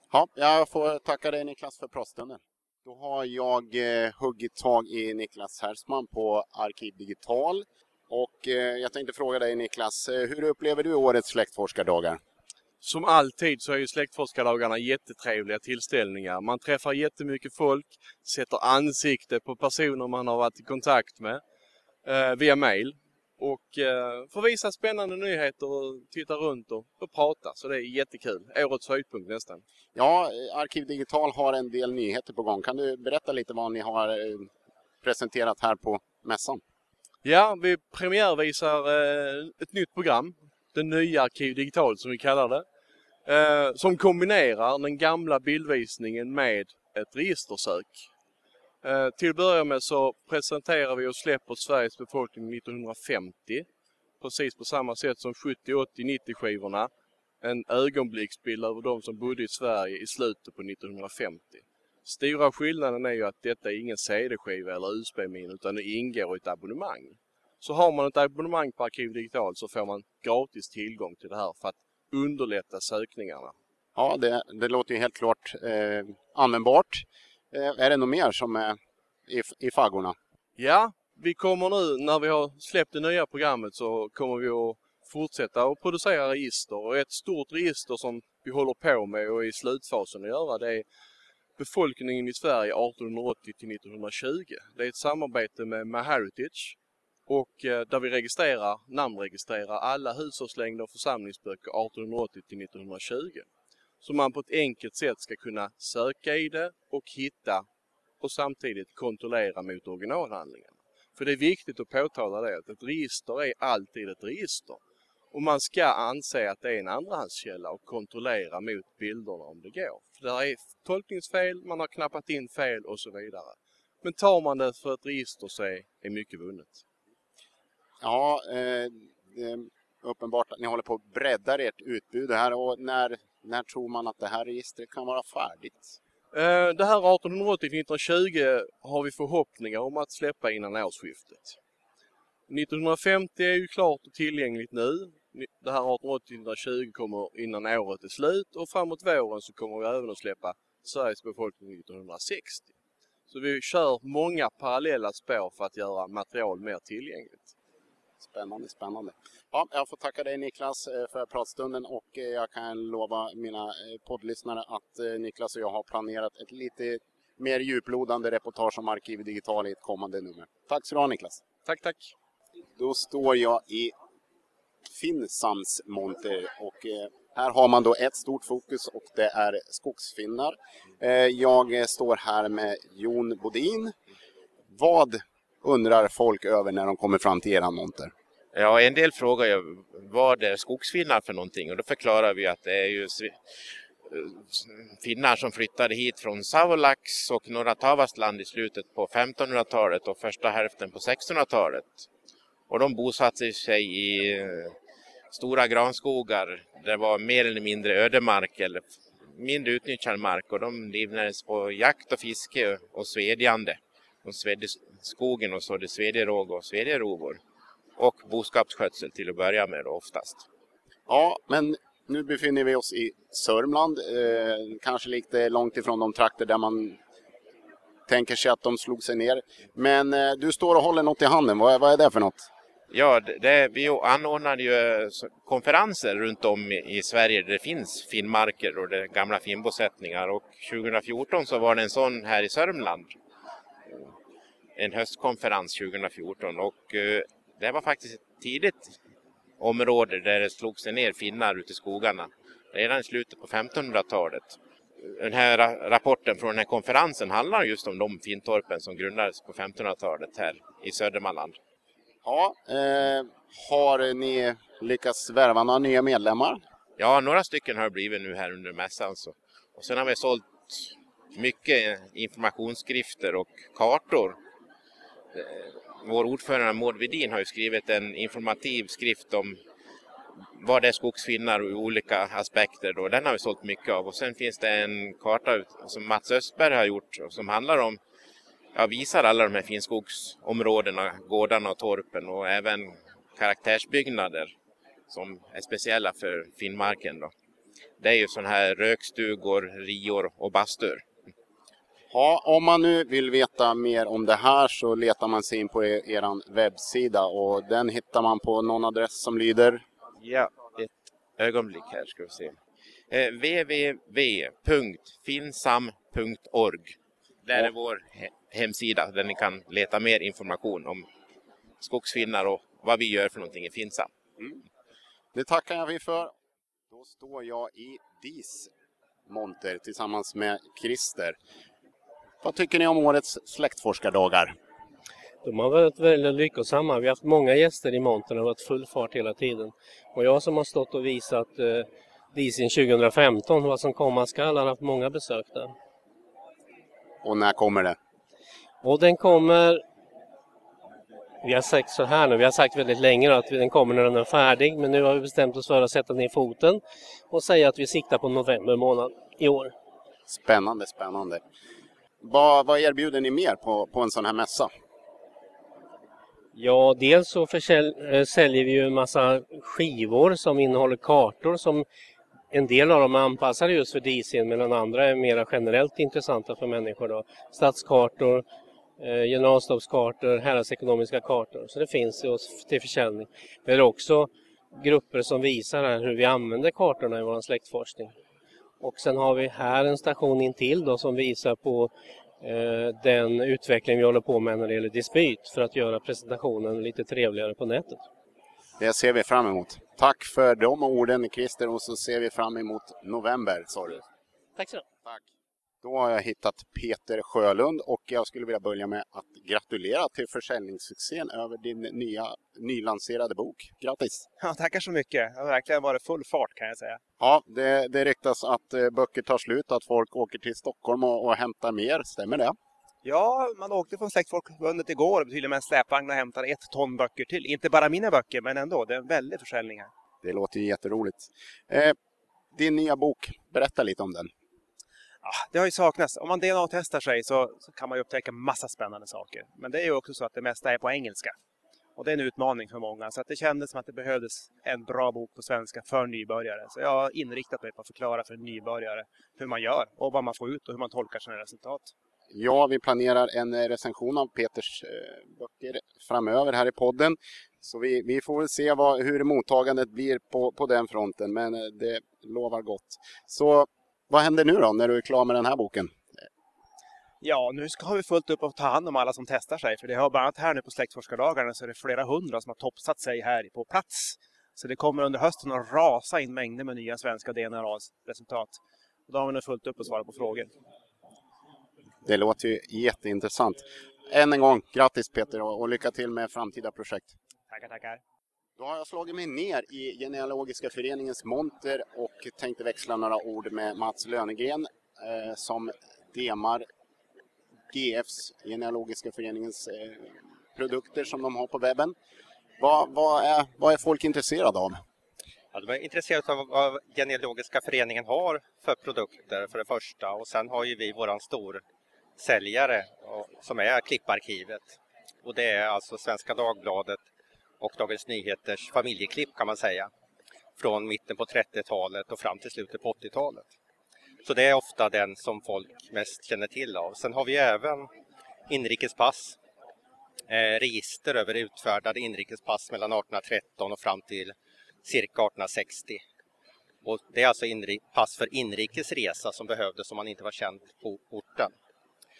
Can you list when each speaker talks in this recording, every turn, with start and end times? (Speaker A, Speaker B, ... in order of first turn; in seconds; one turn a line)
Speaker A: 0.1-12.2
Speaker B: 12.8-21.4
Speaker B: 22.0-29.6
Speaker A: 29.9-34.5
Speaker A: 35.0-36.6
Speaker B: 37.2-42.6
Speaker B: 43.2-48.0
Speaker B: 48.8-53.7
Speaker B: 54.2-56.9
Speaker B: 57.4-73.5
Speaker A: 74.0-80.1
Speaker B: 80.6-90.8
Speaker B: 91.6-96.8
Speaker B: 97.3-103.5
Speaker B: 104.0-107.7
Speaker B: 108.2-114.8
Speaker B: 115.3-126.8
Speaker A: 128.0-135.8
Speaker B: 136.3-141.6
Speaker B: 142.5-152.7
Speaker B: 153.3-157.5
Speaker A: 158.2-171.4
Speaker B: 171.6-172.1
Speaker A: 172.8-173.9
Speaker A: 174.9-183.9
Speaker A: 184.7-188.1
Speaker C: 188.5-193.5
Speaker C: 194.1-202.1
Speaker C: 202.7-204.7
Speaker C: 205.3-217.4
Speaker C: 218.0-220.4
Speaker A: 221.1-227.0
Speaker A: 228.1-232.5
Speaker C: 232.9-243.1
Speaker C: 244.8-249.0
Speaker C: 249.6-261.6
Speaker A: 262.2-266.6
Speaker C: 267.0-274.4
Speaker C: 275.3-279.6
Speaker C: 280.6-288.0
Speaker C: 288.7-294.5
Speaker C: 295.1-297.3
Speaker C: 298.0-301.0
Speaker A: 302.1-309.8
Speaker C: 310.2-312.6
Speaker C: 313.1-321.1
Speaker C: 321.8-324.1
Speaker A: 325.3-326.3
Speaker A: 326.9-328.7
Speaker A: 329.3-331.4
Speaker A: 332.4-334.5
Speaker D: 335.4-345.7
Speaker A: 347.2-347.9
Speaker D: 348.8-349.8
Speaker D: 351.4-359.7
Speaker A: 360.3-361.4
Speaker A: 362.2-364.7
Speaker D: 366.5-371.9
Speaker D: 372.5-378.4
Speaker D: 379.0-388.1
Speaker D: 388.8-398.0
Speaker A: 398.8-404.0
Speaker D: 404.6-404.8
Speaker A: 405.8-414.2
Speaker E: 414.4-417.0
Speaker A: 417.2-422.5
Speaker E: 423.0-429.9
Speaker A: 430.2-431.9
Speaker A: 432.5-434.3
Speaker E: 435.2-441.3
Speaker E: 441.9-451.9
Speaker A: 452.3-466.0
Speaker E: 467.2-480.5
Speaker A: 482.0-487.1
Speaker E: 487.5-488.0
Speaker A: 488.6-496.6
Speaker A: 497.7-501.9
Speaker A: 502.6-504.8
Speaker F: 505.5-511.6
Speaker F: 512.2-517.0
Speaker F: 517.6-519.9
Speaker F: 520.6-523.5
Speaker F: 524.2-527.9
Speaker F: 528.5-529.4
Speaker F: 530.3-536.0
Speaker F: 536.8-541.5